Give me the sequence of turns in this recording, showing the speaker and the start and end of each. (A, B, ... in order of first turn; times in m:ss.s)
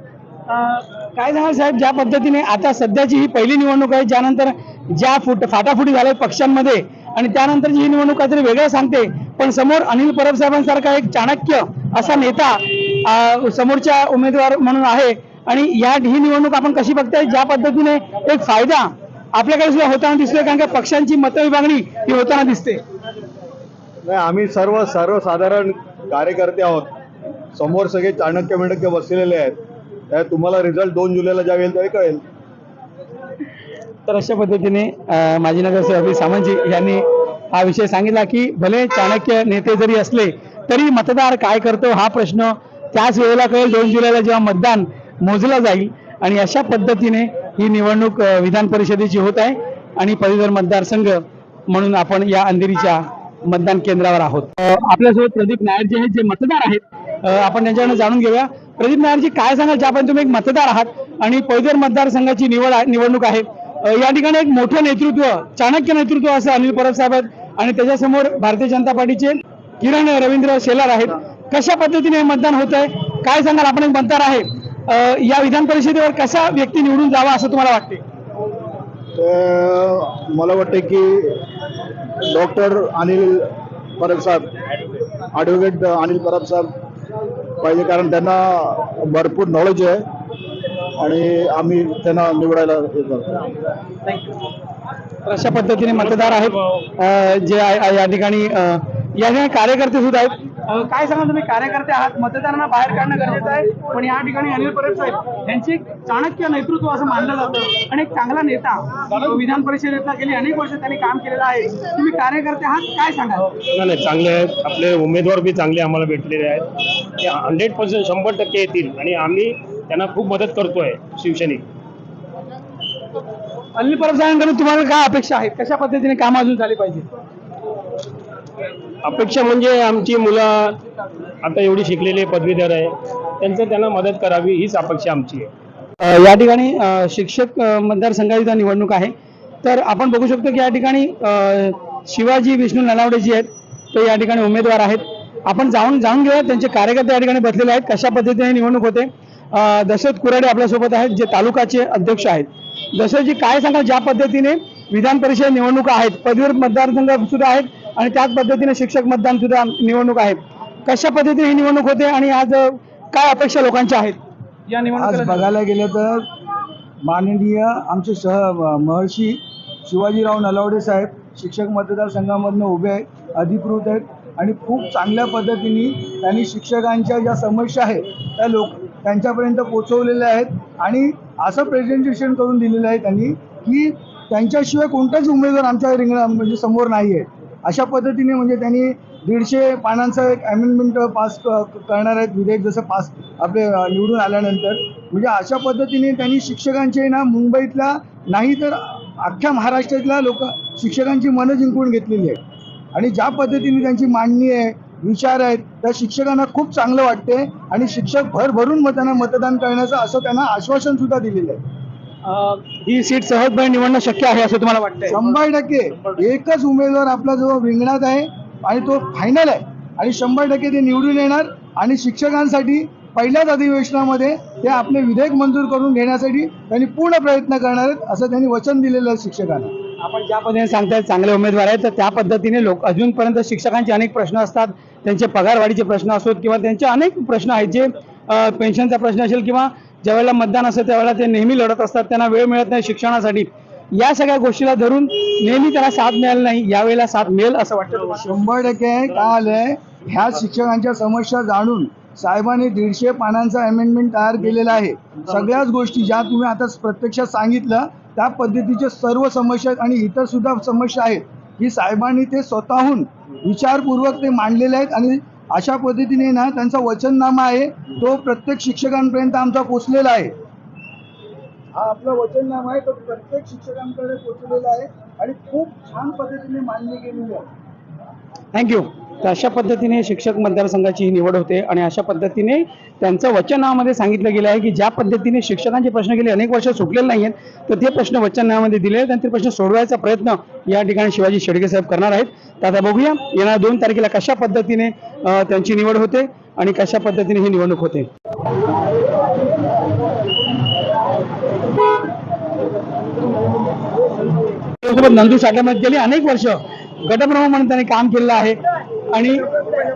0:00.5-0:22.8 A
0:24.0-0:26.9 B
0:27.5-0:29.6 B
0:30.1-0:32.2 B
0:34.0-1:18.0 A
1:35.2-1:53.5 A
1:53.7-1:56.6 C
1:57.2-2:01.6 C
2:03.8-2:07.1 A
2:09.0-2:10.8 C
2:11.4-2:15.5 C
2:16.0-2:44.2 A
2:44.9-2:46.2 D
2:47.0-3:22.4 D
3:22.9-3:31.6 D
3:32.2-3:35.2 A
3:35.1-3:49.7 D
3:50.0-4:08.3 A
4:08.2-4:30.3 D
4:31.7-4:37.4 D
4:38.5-4:58.1 A
5:04.8-5:08.6 A
5:09.1-5:09.5 A